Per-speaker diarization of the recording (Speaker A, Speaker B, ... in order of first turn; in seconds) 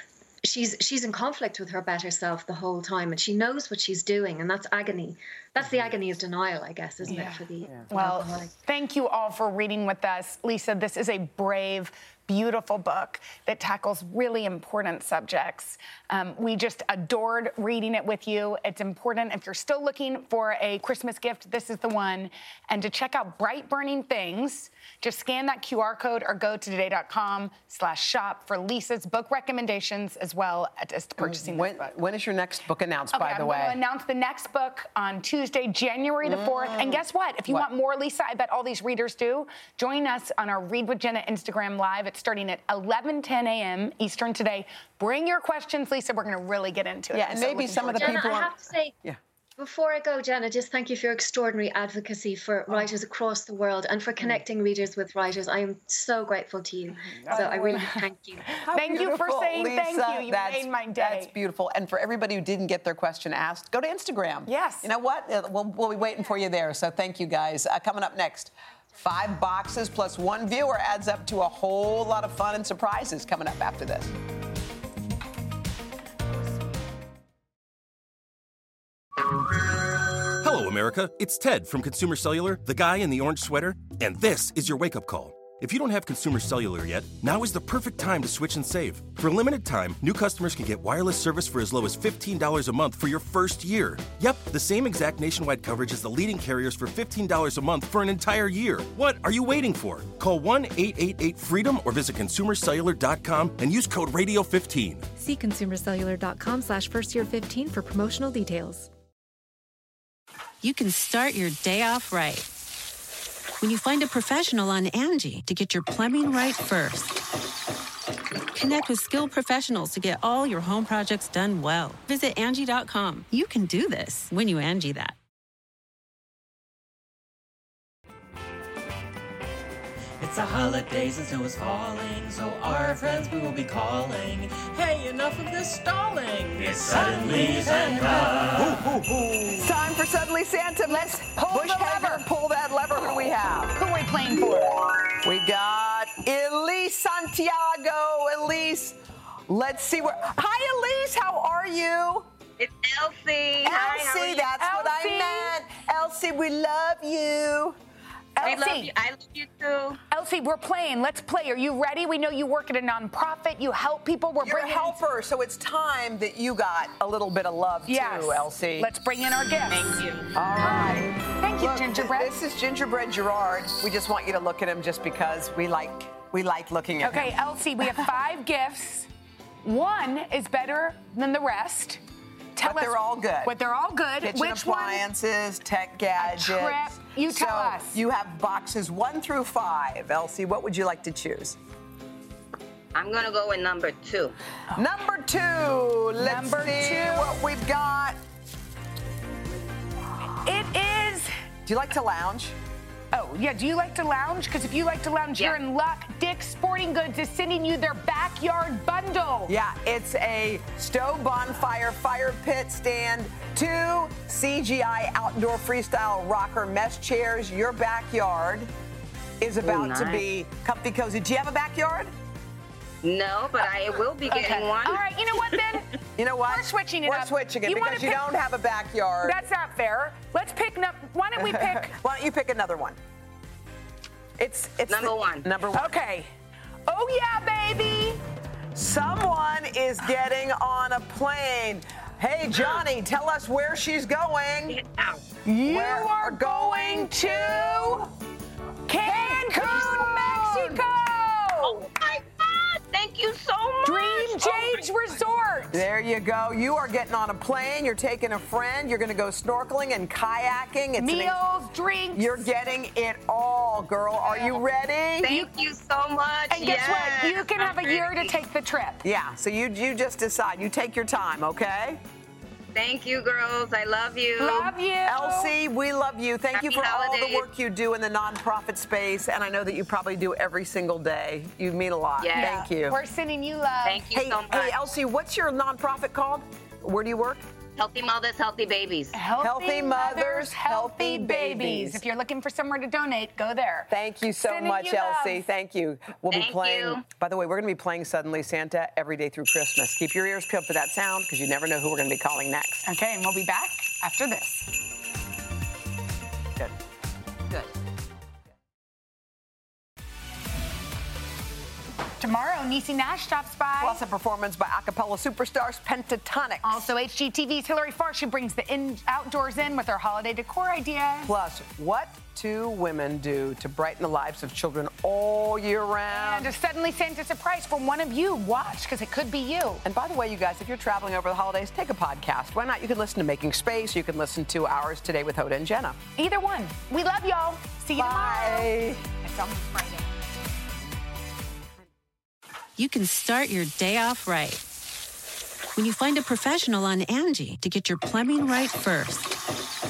Speaker A: 0.4-8.5, 47.9-49.0, 49.6-58.6
Speaker B: 5.6-5.9, 7.0-7.9, 31.2-33.8, 36.2-37.7, 47.1-49.2, 57.3-57.6, 58.6-74.1, 138.6-143.8, 145.2-152.3, 153.6-157.8, 164.4-168.9, 170.3-177.3, 182.6-183.5, 184.2-191.6, 194.8-198.2, 201.7-202.6, 209.5-218.7, 219.4-222.1, 226.2-229.4, 231.4-233.0, 234.4-236.0, 238.7-244.8, 245.6-248.0, 249.4-250.8, 255.7-261.4, 262.1-265.3, 269.0-272.0, 275.1-283.0, 284.1-287.5, 289.4-292.0, 293.9-302.9, 313.8-316.9, 321.2-326.5, 329.8-336.0, 338.0-339.0
Speaker C: 7.1-31.9, 33.1-48.5, 57.0-58.0, 58.5-61.3, 64.5-64.9, 140.8-142.3, 143.8-144.8, 153.6-155.6, 158.4-158.9, 160.1-165.0, 167.9-170.1, 170.6-172.3, 177.0-179.1, 179.6-182.0, 182.6-185.0, 186.2-188.0, 196.2-197.4, 200.4-201.3, 203.1-209.6, 224.3-226.0, 226.5-228.2, 229.2-231.9, 235.7-236.3, 236.9-238.2, 245.4-248.1, 248.9-251.9, 253.8-255.8, 261.0-262.5, 264.2-264.6, 265.2-265.5, 266.5-269.0, 274.4-275.6, 282.4-284.1, 289.1-295.5, 302.9-304.7, 312.2-314.0, 316.6-321.3, 326.1-329.8, 336.2-340.1
Speaker D: 80.4-105.1
Speaker E: 105.2-108.9
Speaker F: 110.6-112.5, 113.6-117.2, 118.5-125.2, 342.8-344.6, 345.8-349.3
Speaker G: 130.2-139.0
Speaker H: 152.6-154.4, 158.4-160.0, 169.7-170.4, 192.9-194.3, 219.6-220.2, 223.0-225.8, 234.9-235.5, 244.7-245.3, 249.1-249.9, 251.6-254.9, 265.2-268.4, 272.7-274.8, 276.5-277.5, 282.2-282.6, 283.9-284.8, 287.8-289.2, 296.3-297.1